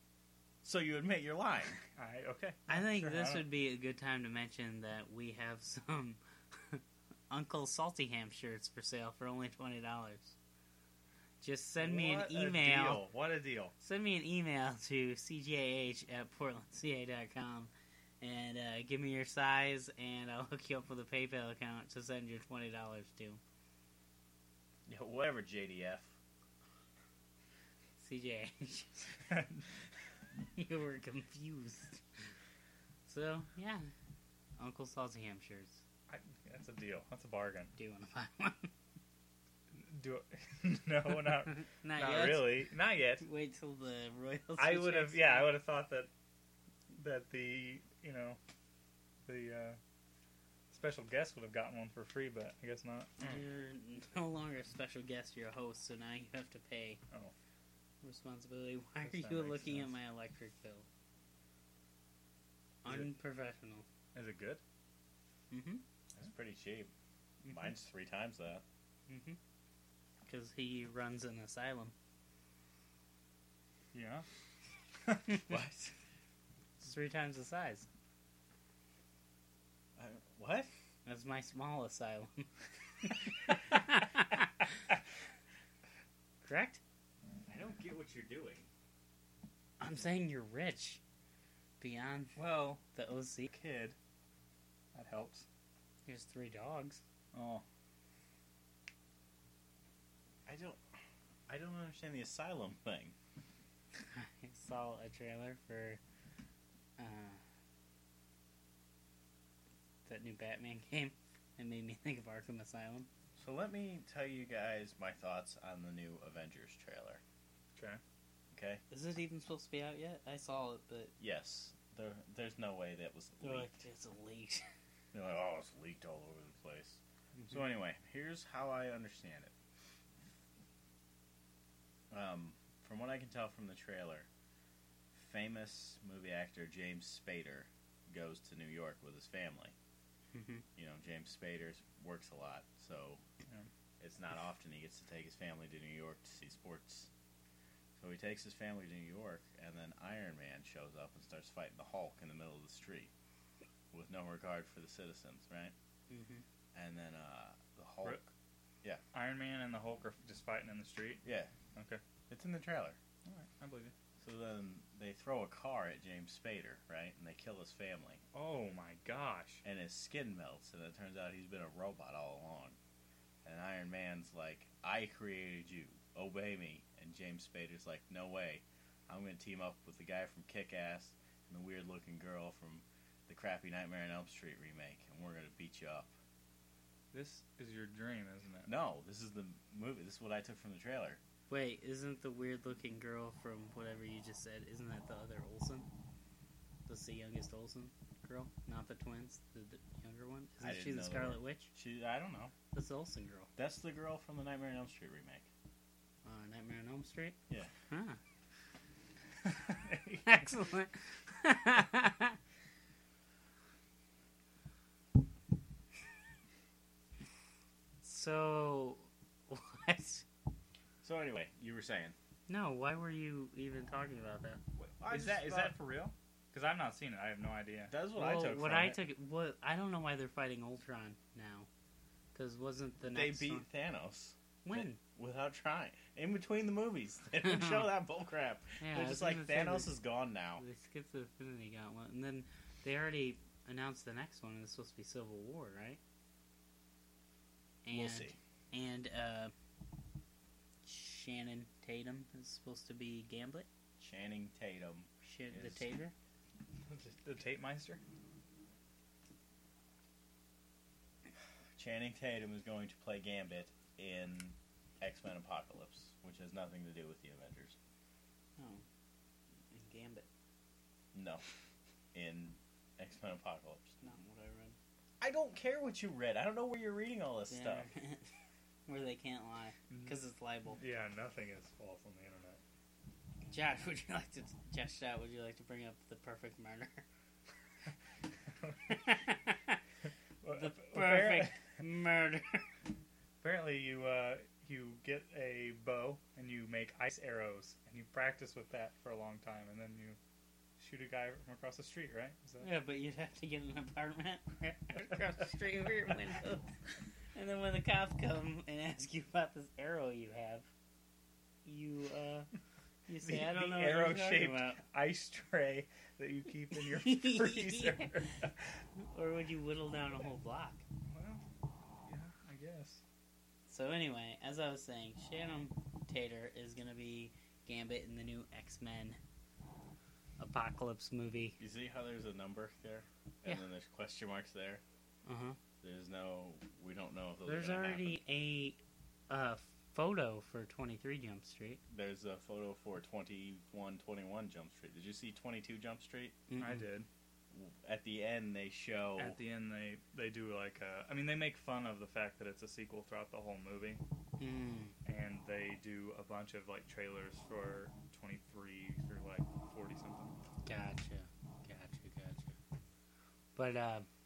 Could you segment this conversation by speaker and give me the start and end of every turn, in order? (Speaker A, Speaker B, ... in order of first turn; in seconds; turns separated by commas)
Speaker A: 0.6-1.8, Speaker B: 2.0-3.5, Speaker C: 2.7-10.3, Speaker C: 11.4-13.0, Speaker B: 11.8-13.7, Speaker C: 13.8-23.4, Speaker A: 24.9-26.1, Speaker C: 28.0-29.2, Speaker B: 29.3-29.6, Speaker C: 30.6-32.0, Speaker C: 33.1-33.9, Speaker C: 34.6-35.8, Speaker B: 36.1-37.7, Speaker C: 37.8-38.7, Speaker B: 39.8-43.2, Speaker C: 41.8-42.6, Speaker C: 43.2-45.6, Speaker B: 44.6-46.1, Speaker B: 46.9-48.4, Speaker B: 49.3-49.8, Speaker B: 50.7-53.4, Speaker C: 53.2-57.0, Speaker C: 58.0-60.9, Speaker B: 59.0-59.9, Speaker C: 62.8-63.9, Speaker B: 64.1-64.6, Speaker C: 65.5-65.8, Speaker A: 66.2-66.9, Speaker C: 67.4-67.7, Speaker A: 67.5-68.6, Speaker C: 69.1-69.4, Speaker C: 70.3-71.9, Speaker B: 73.9-74.3, Speaker A: 75.5-75.9, Speaker C: 76.8-77.9, Speaker A: 80.0-80.7, Speaker C: 81.1-82.5, Speaker C: 83.0-84.7, Speaker C: 86.4-86.8, Speaker A: 87.5-88.7, Speaker C: 89.8-91.0, Speaker C: 91.8-92.4, Speaker B: 92.4-92.8, Speaker C: 92.9-93.5, Speaker B: 93.5-94.0, Speaker B: 95.0-95.5, Speaker C: 96.1-97.0, Speaker B: 97.3-97.6, Speaker A: 100.5-100.8, Speaker A: 101.5-103.2, Speaker C: 104.1-106.0, Speaker C: 107.0-107.4, Speaker C: 110.1-113.1, Speaker A: 113.4-117.2, Speaker B: 117.8-118.0, Speaker A: 118.5-118.8, Speaker C: 118.9-121.1, Speaker A: 121.2-123.7, Speaker C: 123.4-124.6, Speaker A: 125.1-129.5, Speaker A: 132.1-134.3, Speaker A: 135.2-139.7, Speaker C: 140.3-140.7, Speaker A: 140.8-143.2, Speaker A: 144.0-147.1, Speaker A: 148.0-153.1, Speaker A: 153.9-155.7, Speaker C: 156.1-156.4, Speaker A: 156.7-158.3, Speaker B: 159.1-161.2, Speaker A: 161.2-161.5, Speaker B: 161.8-162.0, Speaker A: 162.3-163.0, Speaker B: 163.2-163.9, Speaker A: 164.2-168.2, Speaker B: 168.3-169.6, Speaker A: 169.6-172.8, Speaker A: 173.4-186.1, Speaker B: 187.1-188.7, Speaker A: 188.7-191.2, Speaker C: 191.5-195.9, Speaker C: 196.9-201.7, Speaker A: 200.6-202.5, Speaker C: 202.7-203.5, Speaker A: 203.6-205.5, Speaker C: 206.2-207.4, Speaker C: 207.9-208.2, Speaker B: 209.5-210.6, Speaker C: 210.2-212.4, Speaker C: 218.0-220.2, Speaker A: 221.0-222.2, Speaker C: 222.5-224.6, Speaker B: 224.8-228.0, Speaker A: 225.0-225.8, Speaker A: 227.9-229.0, Speaker C: 228.2-231.7, Speaker C: 232.3-233.7, Speaker A: 233.1-240.6, Speaker C: 234.6-235.0, Speaker C: 237.4-237.9, Speaker C: 238.8-239.9, Speaker C: 240.6-246.0, Speaker C: 247.8-249.5, Speaker A: 247.9-248.4, Speaker C: 250.8-253.7, Speaker A: 254.0-255.8, Speaker C: 255.2-256.1, Speaker B: 256.9-258.0, Speaker A: 261.8-267.8, Speaker C: 268.6-268.8, Speaker C: 269.7-270.3, Speaker A: 271.1-271.4, Speaker A: 272.1-273.9, Speaker C: 274.0-274.8, Speaker A: 275.2-277.9, Speaker C: 277.5-278.3, Speaker C: 278.9-280.8, Speaker B: 279.9-280.2, Speaker B: 280.8-282.6, Speaker C: 283.5-287.0, Speaker C: 288.9-289.8, Speaker B: 290.4-291.6, Speaker C: 290.5-292.7, Speaker B: 293.4-300.2, Speaker B: 300.8-302.7, Speaker C: 302.6-306.7, Speaker C: 307.4-310.7, Speaker C: 311.6-312.5, Speaker C: 313.1-314.8, Speaker B: 313.2-318.6, Speaker C: 316.9-318.2, Speaker C: 319.0-320.8, Speaker B: 321.1-321.4, Speaker B: 322.1-323.0, Speaker C: 323.7-329.2, Speaker C: 330.4-331.6, Speaker A: 331.6-334.8, Speaker C: 335.2-335.6, Speaker A: 335.8-338.2, Speaker C: 337.5-341.8, Speaker A: 341.9-346.4, Speaker C: 346.5-346.9, Speaker B: 346.6-347.1, Speaker A: 347.5-349.4, Speaker B: 349.2-354.0, Speaker C: 354.4-354.9, Speaker B: 355.1-360.4, Speaker C: 360.6-362.6, Speaker C: 363.6-364.1